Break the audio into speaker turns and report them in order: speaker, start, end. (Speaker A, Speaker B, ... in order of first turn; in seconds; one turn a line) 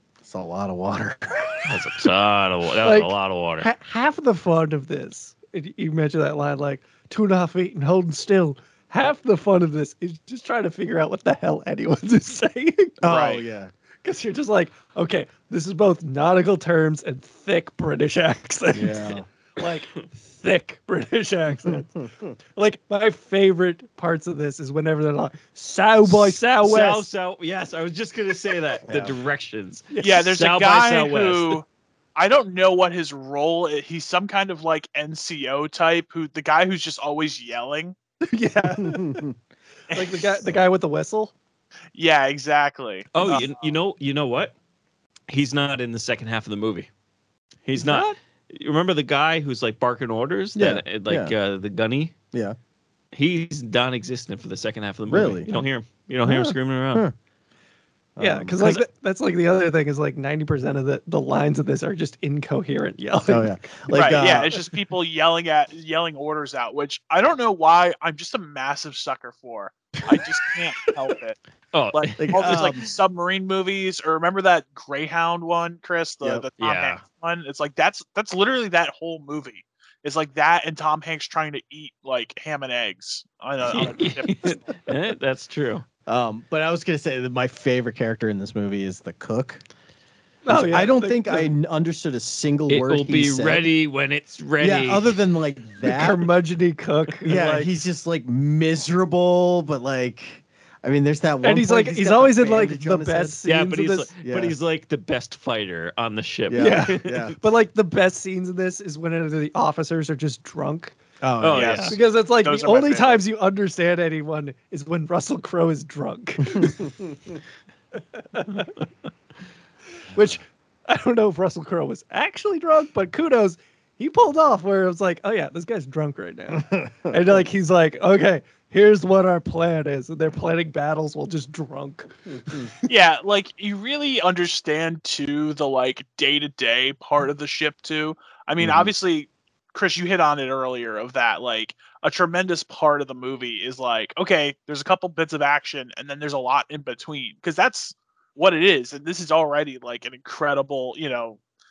Speaker A: 0.2-1.8
Speaker B: 1.7-3.7
Speaker C: 2.8-13.0
Speaker A: 13.0-13.7
Speaker D: 13.1-13.4
Speaker C: 14.0-21.9
Speaker A: 18.7-19.2
Speaker A: 21.7-22.3
Speaker C: 22.6-27.1
Speaker B: 26.1-31.6
Speaker A: 28.9-29.1
Speaker C: 29.9-30.2
Speaker D: 30.0-31.6
Speaker D: 32.2-38.0
Speaker C: 38.2-39.3
Speaker A: 38.8-39.4
Speaker D: 39.9-40.3
Speaker C: 39.9-41.3
Speaker D: 42.0-43.5
Speaker B: 43.1-44.5
Speaker B: 45.3-46.9
Speaker B: 47.7-52.1
Speaker C: 47.8-48.1
Speaker A: 50.5-51.3
Speaker B: 53.1-57.1
Speaker A: 55.1-55.5
Speaker A: 56.3-57.1
Speaker A: 58.2-58.8
Speaker C: 58.2-64.2
Speaker A: 63.3-64.5
Speaker D: 63.9-71.4
Speaker B: 71.7-72.6
Speaker D: 71.9-84.7
Speaker A: 72.2-72.9
Speaker B: 76.6-77.0
Speaker B: 83.7-85.8
Speaker A: 86.1-89.6
Speaker C: 90.5-91.5
Speaker A: 90.5-93.7
Speaker B: 92.7-95.2
Speaker A: 94.6-96.3
Speaker C: 95.8-97.7
Speaker A: 97.2-103.4
Speaker C: 101.4-104.1
Speaker B: 103.5-107.4
Speaker A: 104.2-104.5
Speaker A: 106.5-107.4
Speaker C: 106.6-110.9
Speaker A: 111.2-111.9
Speaker B: 111.4-112.0
Speaker D: 111.5-113.2
Speaker C: 111.9-116.9
Speaker A: 116.6-116.9
Speaker C: 118.1-118.7
Speaker C: 120.1-132.7
Speaker A: 126.7-127.2
Speaker D: 132.9-151.4
Speaker A: 138.6-138.9